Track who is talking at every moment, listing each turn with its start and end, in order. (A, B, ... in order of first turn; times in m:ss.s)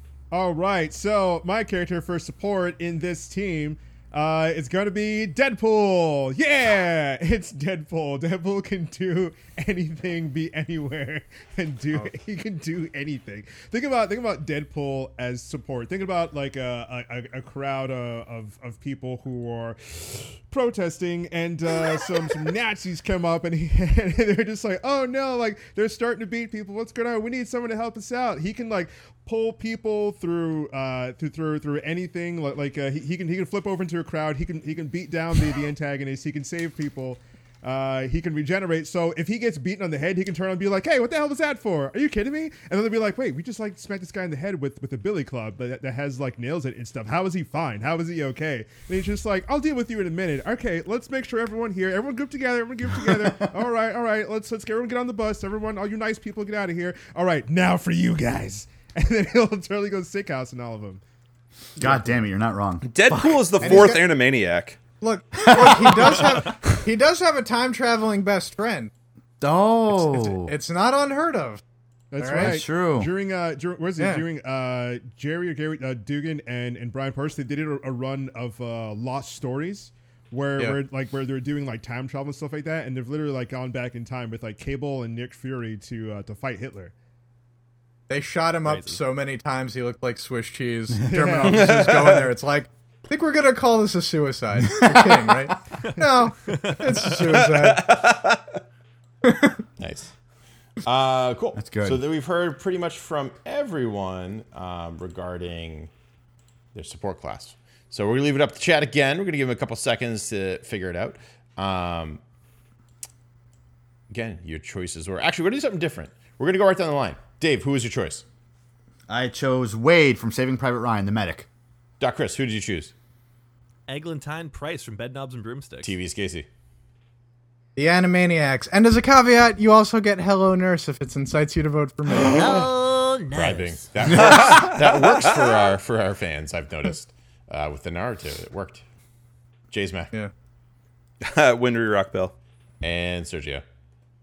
0:00.3-1:01.0 A
0:53.1-0:53.5 B
1:01.8-1:03.9 B
1:02.8-1:04.8 C
1:03.6-1:04.1 D
1:05.0-1:08.9 D
1:05.4-1:06.4 B
1:09.4-1:10.5 B
1:09.9-1:11.6 D
1:12.1-1:26.9 A
1:12.2-1:12.6 D
1:12.3-1:13.1 B
1:14.0-1:14.2 D
1:28.1-1:37.9 D
1:28.6-1:29.0 E
1:31.0-1:32.0 A
1:31.4-1:32.3 C
1:37.0-1:38.6 C
1:39.2-1:39.5 D
1:39.8-1:40.1 F
1:40.8-1:45.9 F
1:41.6-1:42.0 B
1:46.7-1:52.2 F
1:54.1-1:58.2 F
1:59.1-2:01.5 B
2:02.0-2:02.9 F
2:03.9-2:05.9 E
2:05.8-2:06.5 F
2:07.8-2:12.6 D
2:12.1-2:14.5 E
2:12.4-2:12.7 F
2:13.3-2:18.8 F
2:14.1-2:14.4 B
2:14.3-2:15.5 C
2:19.7-2:20.1 F
2:21.2-2:22.3 C
2:22.8-2:23.6 F